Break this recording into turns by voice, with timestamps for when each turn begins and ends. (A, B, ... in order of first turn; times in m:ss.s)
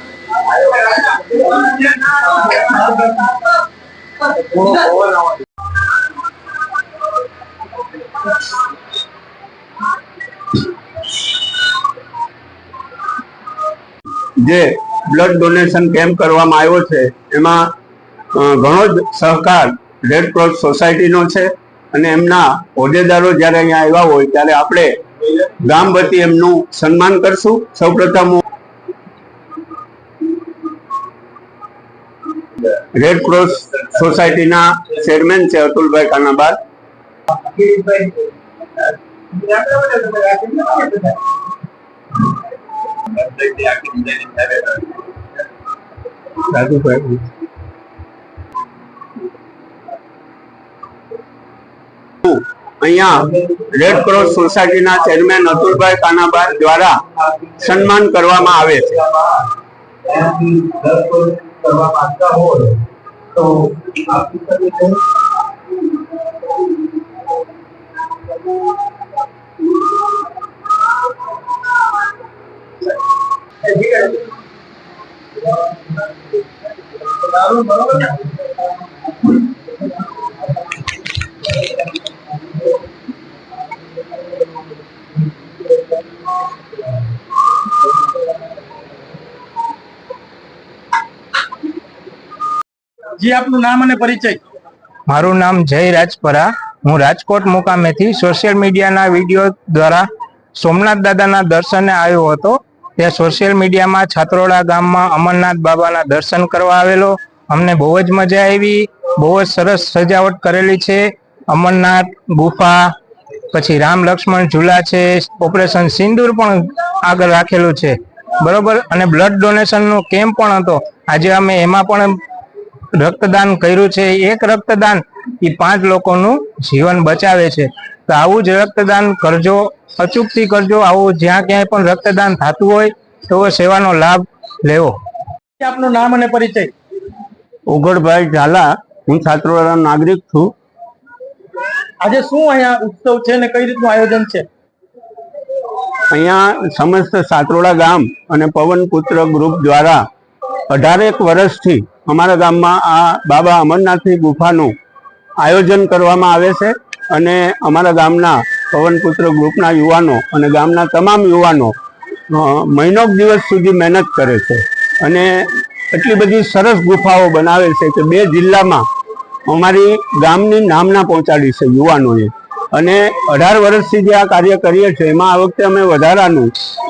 0:00.7-0:01.5 A
0:04.5-0:05.2 A
0:14.4-0:17.7 B
0:18.3-0:24.9 B
0:25.6-0:28.4 B
0:32.9-0:36.6 B
0:37.5-0:38.1 C
0:37.6-0:38.0 A
0:39.4-0:41.1 C
0:43.1-0:44.8 A
0:46.4-0:47.2 B
0:52.2-0:53.2 B
0:53.3-0:55.5 A
0:53.7-0:57.0 B
0:57.2-0:57.7 A
0:57.6-0:59.0 B
0:58.6-0:59.4 A
1:00.0-1:02.8 A
1:03.3-1:05.0 A
1:13.7-1:14.2 C
1:17.3-1:18.1 C
1:33.2-1:34.4 C
1:35.1-1:52.9 D
1:53.5-2:02.2 D
2:02.9-2:14.9 D
2:15.6-2:16.7 C
2:17.7-2:20.5 B
2:22.0-2:24.4 C
2:26.1-2:30.0 B
2:30.7-2:34.7 B
2:35.4-2:41.7 B
2:42.3-2:48.8 B
2:49.5-2:56.5 B